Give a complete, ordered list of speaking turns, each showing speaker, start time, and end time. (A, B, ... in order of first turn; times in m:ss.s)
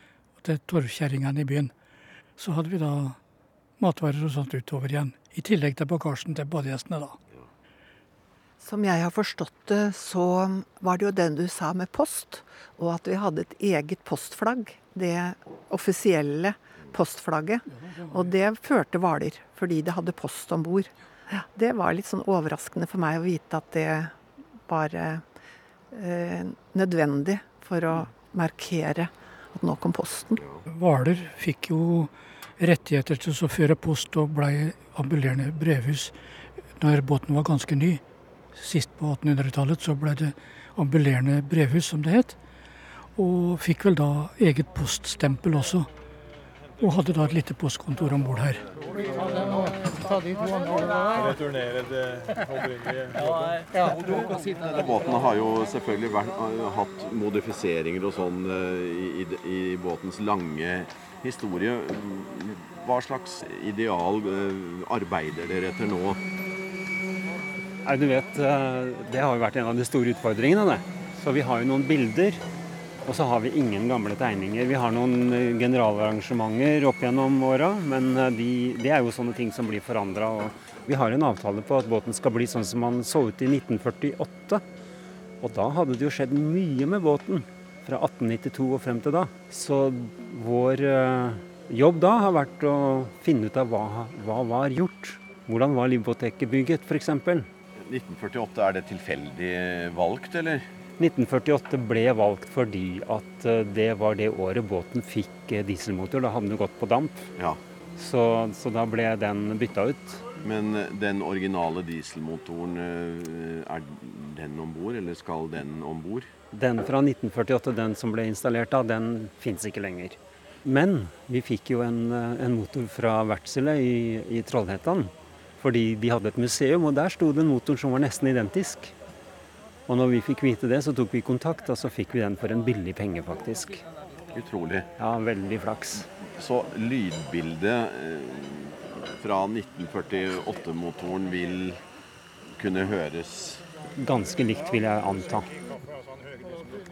0:00.4-0:01.7 A
0:02.4-0:03.2 A
0:03.8-0:07.2 A
0:08.6-0:24.2 B
0:24.7-0:25.2 B
0:25.9-0:30.4 B
0:30.7-0:36.1 A
0:36.8-0:38.0 A
0:38.6-0:42.4 A
0:43.2-0:45.9 A
0:46.8-0:48.6 A
0:51.0-0:53.7 C
0:53.8-1:06.2 D
1:07.8-1:12.4 E
1:13.0-1:24.6 E
1:25.4-1:37.5 E
1:37.8-1:40.7 D
1:41.0-1:47.3 E
1:48.0-1:50.3 E
1:50.4-1:56.3 D
1:56.5-2:08.9 E
2:09.9-2:13.8 E
2:14.3-2:14.9 D
2:15.0-2:16.1 E
2:16.4-2:21.8 D
2:22.6-2:23.6 D
2:24.0-2:25.5 E